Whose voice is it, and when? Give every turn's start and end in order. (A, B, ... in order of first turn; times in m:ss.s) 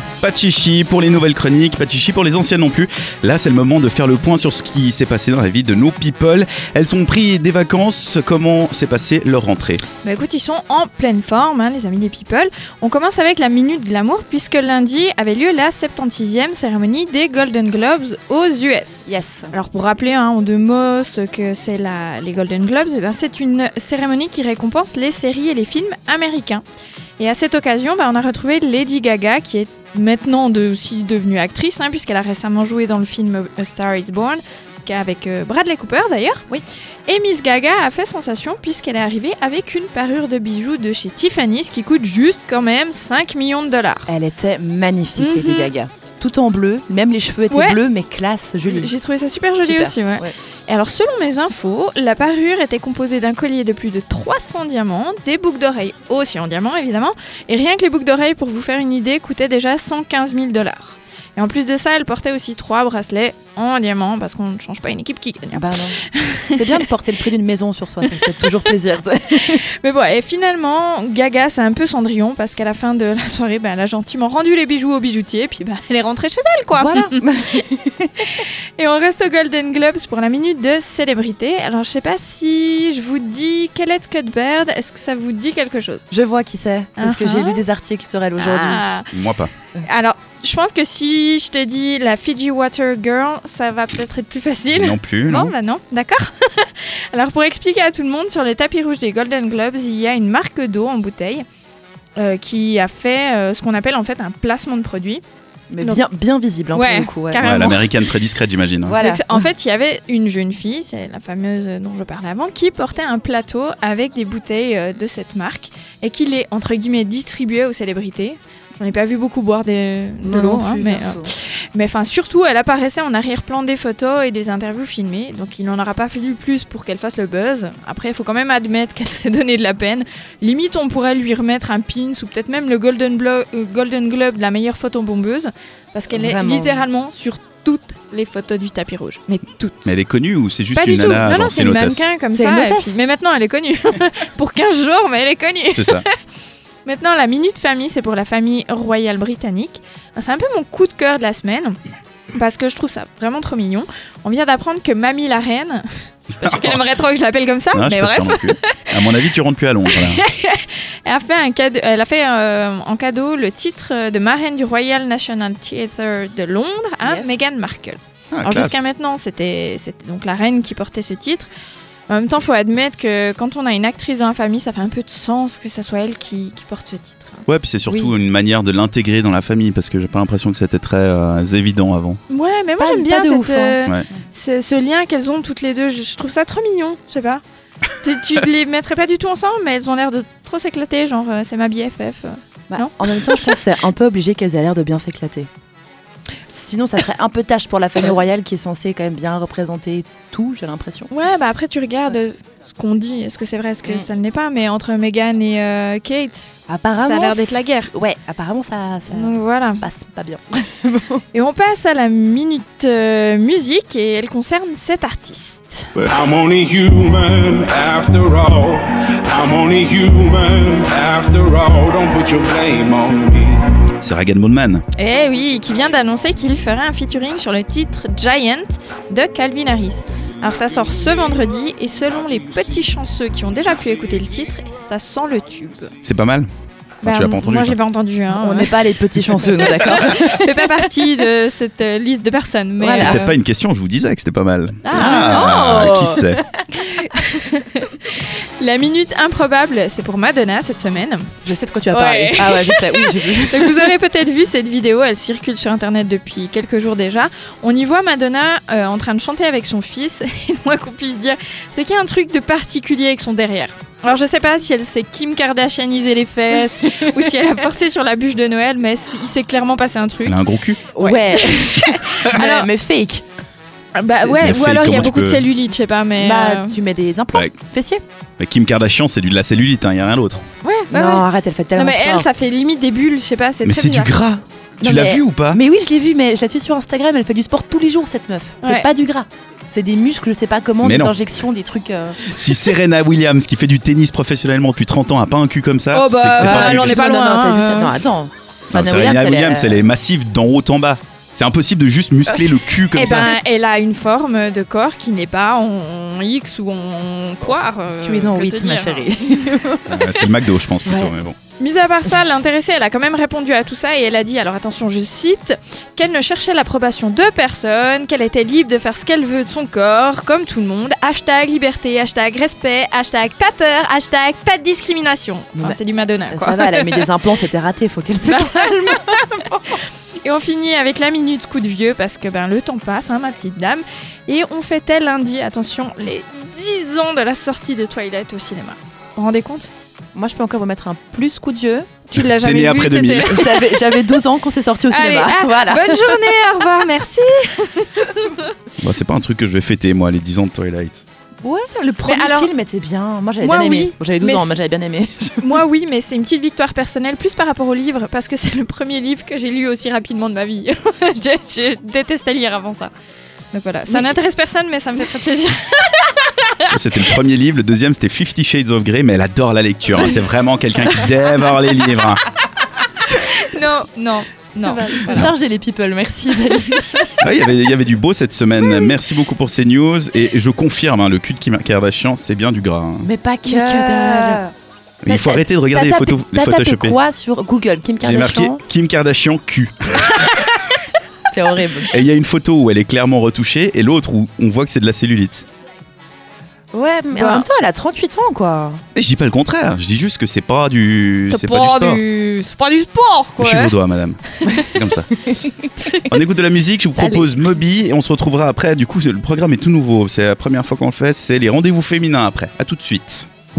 0:00.2-0:09.8 A
0:10.0-0:26.6 B
0:19.1-0:19.5 C
0:27.2-0:36.4 B
0:37.1-0:44.1 B
0:44.1-0:48.9 C
0:45.2-0:45.7 B
0:47.5-0:47.8 B
0:48.6-1:06.9 B
0:49.6-0:50.3 C
1:05.5-1:09.6 C
1:08.0-1:08.7 B
1:09.5-1:17.2 B
1:16.7-1:18.3 C
1:18.3-1:26.0 B
1:26.1-1:29.0 C
1:27.0-1:27.6 B
1:28.4-1:29.1 B
1:29.1-1:29.5 A
1:29.8-1:41.4 B
1:34.7-1:35.5 A
1:42.2-1:45.2 B
1:45.7-1:47.4 C
1:46.7-1:48.0 B
1:47.4-1:49.0 A
1:48.9-1:49.5 C
1:49.0-2:19.9 B
2:00.2-2:01.3 C
2:16.1-2:16.9 C
2:19.9-2:22.0 A
2:20.7-2:26.1 B
2:22.3-2:23.0 C
2:25.7-2:26.0 A
2:26.8-2:31.8 B
2:32.3-2:35.9 B
2:36.4-2:38.8 B
2:36.4-2:36.8 A
2:37.7-2:40.2 A
2:39.9-2:51.5 B
2:47.0-2:47.4 C
2:48.3-2:48.8 A
2:52.1-2:57.5 B
2:57.5-3:02.2 A
3:02.3-3:07.4 B
3:02.8-3:03.8 C
3:08.0-3:13.6 B
3:12.7-3:15.5 C
3:16.5-3:21.1 C
3:21.1-3:27.9 B
3:26.7-3:31.2 C
3:29.1-3:29.9 B
3:31.3-3:35.9 B
3:36.0-3:43.7 D
3:36.7-3:37.6 A
3:44.0-3:44.8 A
3:45.0-3:55.9 B
3:56.0-3:56.5 A
3:57.0-3:57.8 A
3:57.0-3:58.8 B
3:58.3-4:00.5 C
3:59.6-4:03.4 B
4:02.8-4:03.2 C
4:02.9-4:06.4 A
4:04.8-4:06.0 B
4:04.9-4:06.6 C
4:06.7-4:11.3 B
4:11.4-4:13.9 C
4:11.9-4:32.7 B
4:30.2-4:30.8 A
4:31.0-4:33.2 C
4:34.0-4:36.8 B
4:34.3-4:35.5 A
4:36.2-4:38.0 C
4:38.4-4:40.4 A
4:40.6-4:44.1 B
4:40.9-4:42.3 C
4:43.6-4:45.6 A
4:44.8-4:52.4 C
4:48.6-4:48.9 B
4:50.8-4:51.2 A
4:52.3-4:57.0 A
4:55.9-4:58.0 B
4:56.4-4:59.8 C
4:58.7-5:03.3 A
5:02.9-5:09.1 B
5:08.0-5:10.1 C
5:09.9-5:11.4 A
5:10.9-5:11.1 C
5:11.6-5:27.1 B
5:26.3-5:29.2 C
5:28.2-5:39.7 B
5:40.2-5:41.9 C
5:42.1-5:44.2 B
5:42.1-5:43.3 A
5:43.2-5:46.4 C
5:44.9-5:48.5 B
5:48.8-5:51.0 A
5:51.4-5:55.6 C
5:52.0-5:52.5 B
5:53.4-5:54.5 B
5:55.4-6:02.9 B
6:03.5-6:06.7 B
6:03.9-6:04.2 C
6:06.7-6:12.2 A
6:13.1-6:15.3 B
6:14.6-6:17.2 C
6:17.2-6:23.1 A
6:23.0-6:24.5 C
6:23.4-6:24.4 B
6:25.0-6:27.0 A
6:25.1-6:28.6 C
6:28.0-6:30.4 A
6:31.3-6:31.9 C
6:31.9-6:35.5 A
6:36.7-6:38.8 C
6:37.1-6:37.5 B
6:39.0-6:42.0 A
6:41.3-6:43.8 B
6:43.4-6:45.1 A
6:44.4-6:44.7 B
6:44.4-6:46.1 C
6:45.8-6:46.1 B
6:46.1-6:53.3 A
6:47.0-6:47.3 C